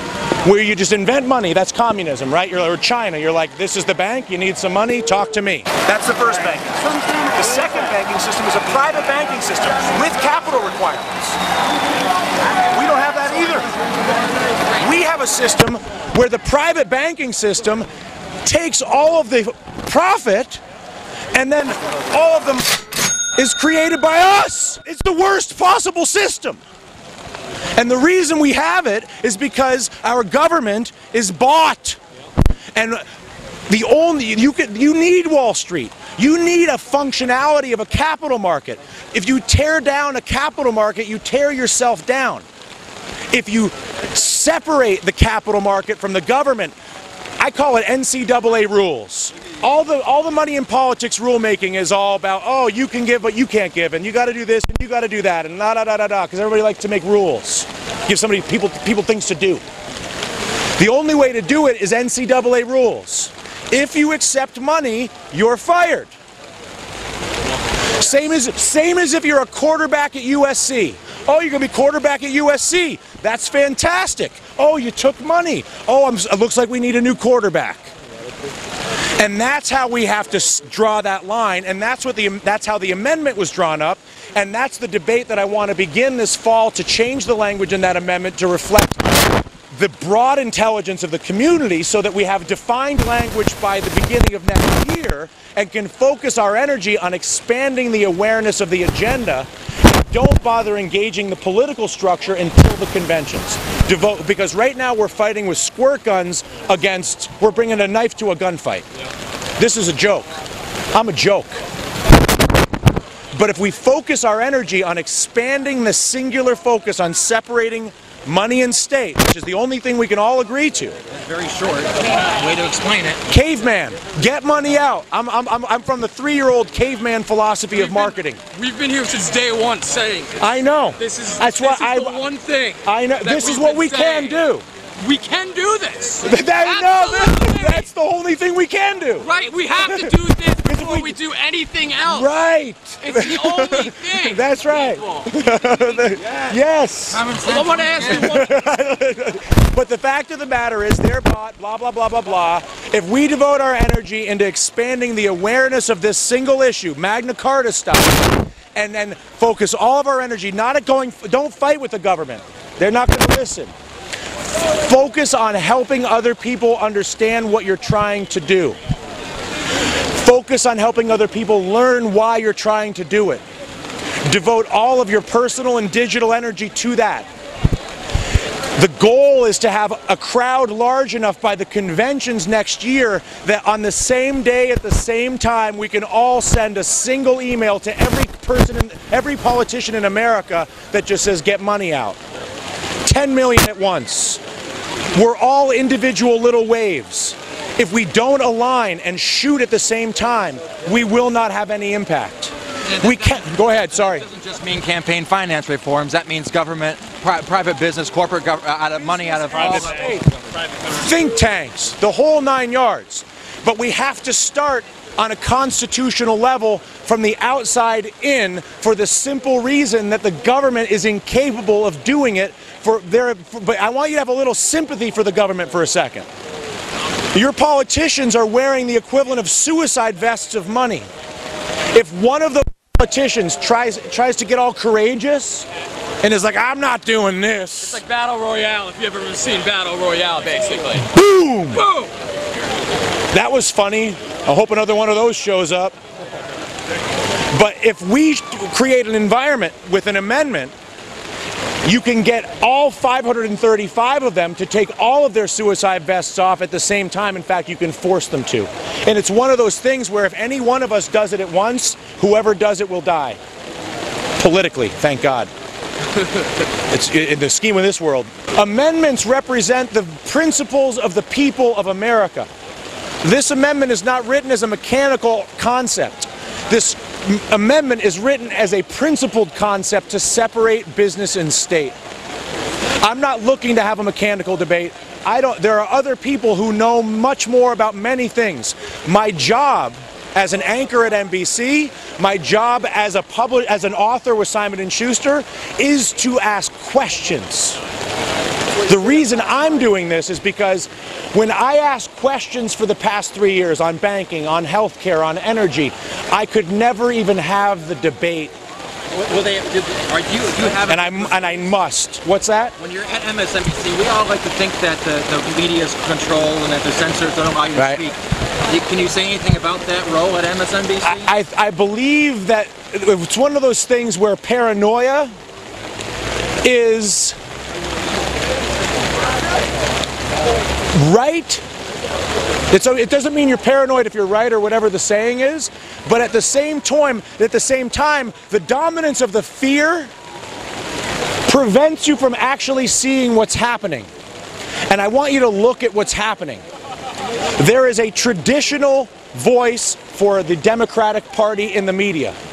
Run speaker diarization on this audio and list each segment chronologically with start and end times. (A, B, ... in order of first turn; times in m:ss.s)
0:00.4-0:11.4 A
0:12.7-0:13.7 A
0:14.8-0:17.9 A
0:18.4-0:20.6 A
0:21.3-0:22.8 A
0:23.4-0:26.6 A
0:27.8-0:32.0 A
0:32.8-0:33.0 A
0:33.7-0:42.5 A
0:43.3-0:46.8 A
0:47.4-0:59.6 A
1:00.8-1:06.1 A
1:08.0-1:17.9 A
1:19.2-1:48.9 A
1:49.6-1:50.3 A
1:50.9-1:51.6 A
1:53.3-2:01.0 A
2:01.1-2:03.2 B
2:03.3-2:08.4 A
2:07.8-2:10.4 C
2:10.4-2:14.6 A
2:11.0-2:14.4 C
2:15.0-2:17.9 C
2:16.2-2:21.2 A
2:19.2-2:22.3 C
2:22.0-2:27.3 A
2:23.0-2:24.4 C
2:26.0-2:26.5 B
2:27.1-2:28.4 B
2:27.5-2:28.5 C
2:28.0-2:43.7 A
2:44.8-2:48.8 A
2:50.2-2:53.4 A
2:54.2-2:57.3 A
2:58.8-3:12.2 A
3:13.0-3:14.4 A
3:15.1-3:24.3 A
3:22.9-3:30.2 B
3:29.4-3:30.3 A
3:30.9-3:46.3 A
3:47.3-3:51.1 A
3:51.9-3:55.7 A
3:56.2-3:58.0 A
3:58.0-4:01.1 C
4:01.1-4:01.9 A
4:03.3-4:06.0 A
4:07.5-4:10.7 A
4:11.8-4:23.4 A
4:24.4-4:25.5 A
4:26.9-4:32.5 A
4:33.2-4:42.0 A
4:43.0-4:57.8 A
4:58.8-5:08.5 A
5:09.1-5:11.6 B
5:10.9-5:12.8 A
5:12.8-5:18.2 B
5:17.8-5:18.0 A
5:18.7-5:21.3 B
5:21.0-5:25.3 A
5:26.6-5:27.4 A
5:30.9-5:31.6 A
5:32.7-5:40.1 A
5:41.5-5:44.1 A
5:44.9-5:46.6 A
5:47.6-5:52.4 A